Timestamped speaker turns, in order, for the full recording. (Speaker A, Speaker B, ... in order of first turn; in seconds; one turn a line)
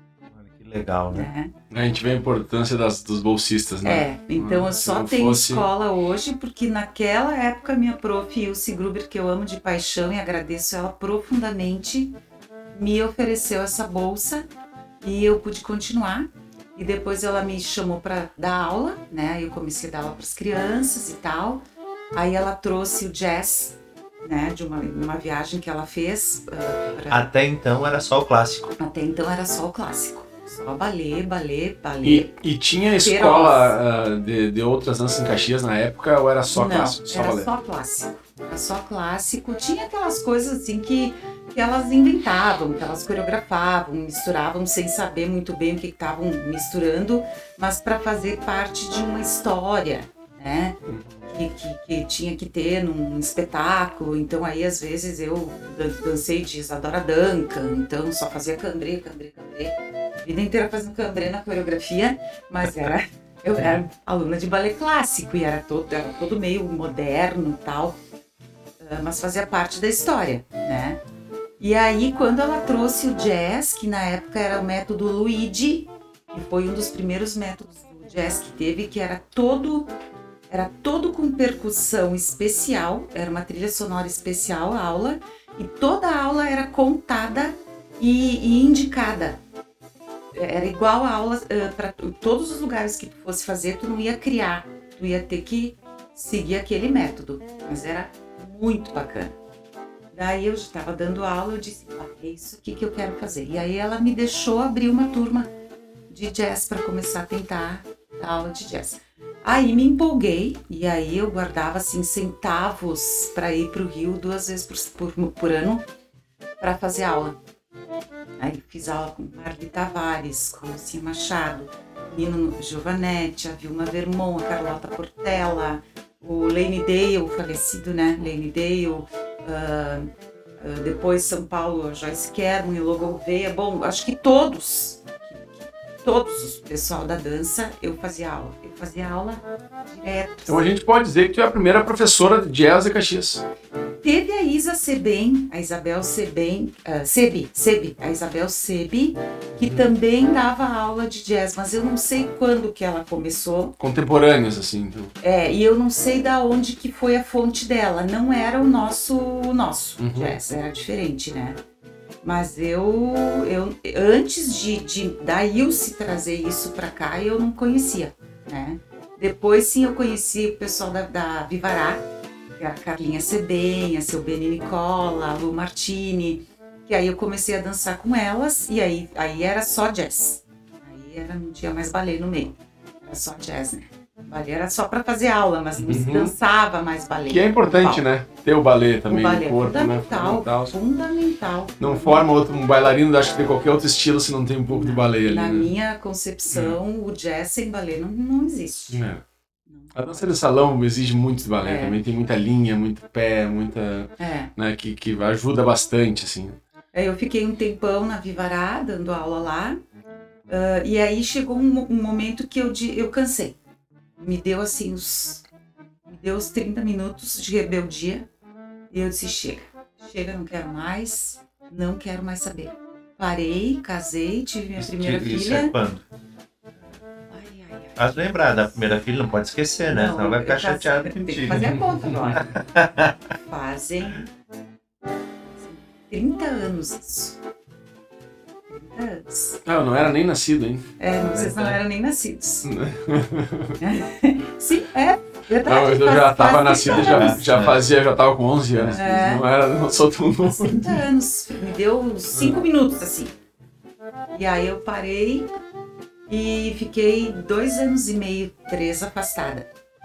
Speaker A: 0.3-1.3
Speaker B: 1.1-1.5
Speaker C: 1.7-5.7
Speaker B: 3.8-12.2
Speaker B: 12.7-14.5
Speaker B: 15.0-27.3
Speaker A: 27.1-28.7
Speaker B: 28.8-32.3
Speaker C: 32.0-37.5
Speaker B: 33.0-33.8
Speaker B: 36.5-50.8
Speaker C: 50.9-51.2
Speaker B: 51.3-68.0
Speaker B: 68.8-71.0
Speaker B: 71.6-79.9
Speaker B: 80.5-89.4
Speaker B: 90.3-99.3
Speaker B: 100.1-105.5
Speaker B: 106.1-115.8
Speaker B: 116.6-117.4
Speaker B: 118.4-140.7
Speaker C: 140.5-143.4
Speaker B: 144.0-153.8
Speaker C: 153.8-155.1
Speaker B: 155.2-161.6
Speaker C: 160.0-160.4
Speaker B: 162.2-172.1
Speaker B: 172.6-188.0
Speaker C: 185.8-186.3
Speaker C: 187.3-190.8
Speaker B: 189.1-192.3
Speaker C: 191.8-195.7
Speaker B: 194.7-199.0
Speaker C: 196.5-196.8
Speaker C: 198.9-199.2
Speaker B: 199.7-200.3
Speaker C: 199.9-206.6
Speaker B: 201.6-202.0
Speaker B: 204.2-204.5
Speaker B: 206.9-209.8
Speaker B: 210.5-213.6
Speaker B: 214.2-215.4
Speaker B: 216.1-218.3
Speaker B: 218.9-225.8
Speaker A: 224.8-226.0
Speaker B: 227.3-228.6
Speaker A: 228.0-231.8
Speaker B: 229.9-232.6
Speaker C: 232.0-232.4
Speaker A: 232.3-233.1
Speaker B: 233.4-234.3
Speaker B: 235.6-237.4
Speaker B: 238.7-239.6
Speaker C: 239.6-240.8
Speaker B: 241.0-242.7
Speaker A: 241.3-241.8
Speaker C: 242.6-243.8
Speaker B: 243.8-247.4
Speaker C: 245.6-250.9
Speaker A: 246.9-247.8
Speaker B: 248.9-249.4
Speaker B: 250.6-253.3
Speaker B: 254.3-255.5
Speaker B: 256.3-259.7